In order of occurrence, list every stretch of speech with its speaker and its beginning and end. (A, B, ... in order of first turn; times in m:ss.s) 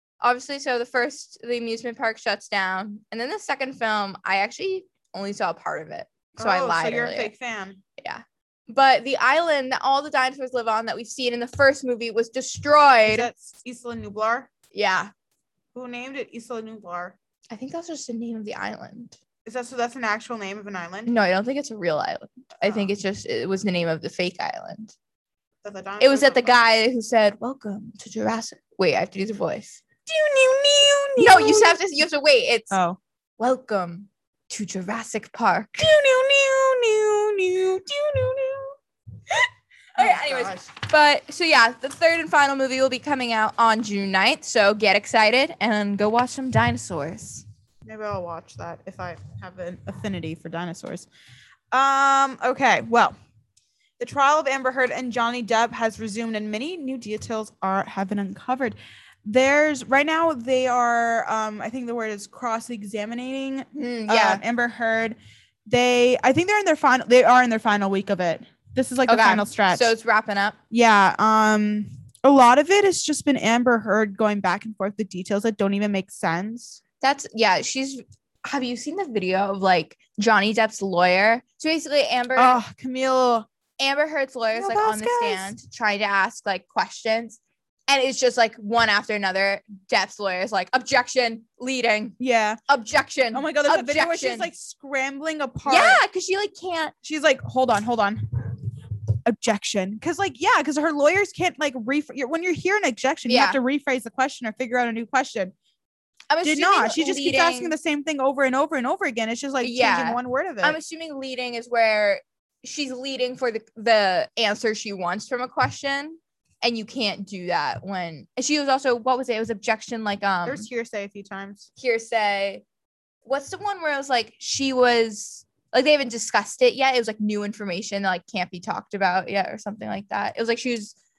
0:00.2-0:07.3 A
0:06.4-0:07.8 B
0:08.0-0:13.3 A
0:13.0-0:14.5 B
0:14.7-0:15.1 A
0:15.7-0:17.2 B
0:17.5-0:19.2 A
0:19.4-0:21.1 B
0:21.0-0:24.9 A
0:22.6-0:22.9 B
0:25.6-0:26.6 B
0:26.0-0:29.8 A
0:30.0-0:31.8 B
0:31.2-0:32.8 A
0:32.7-0:33.0 B
0:33.4-0:35.8 A
0:35.8-0:38.7 B
0:40.0-0:47.4 A
0:40.0-0:40.6 B
0:47.8-0:51.1 B
0:51.7-0:53.1 B
0:54.0-1:09.9 B
1:03.7-1:04.4 A
1:09.1-1:10.6 A
1:10.7-1:16.8 B
1:17.0-1:22.6 A
1:22.3-1:23.5 B
1:23.8-1:32.1 A
1:24.5-1:25.5 B
1:32.2-1:32.6 B
1:32.7-1:34.5 A
1:33.3-1:36.0 B
1:35.7-1:36.9 A
1:37.0-1:38.2 B
1:39.2-1:45.5 B
1:43.2-1:43.6 A
1:46.3-1:47.7 A
1:46.4-1:50.8 B
1:49.6-2:00.7 A
2:00.4-2:01.7 B
2:01.8-2:02.6 A
2:03.2-2:10.9 A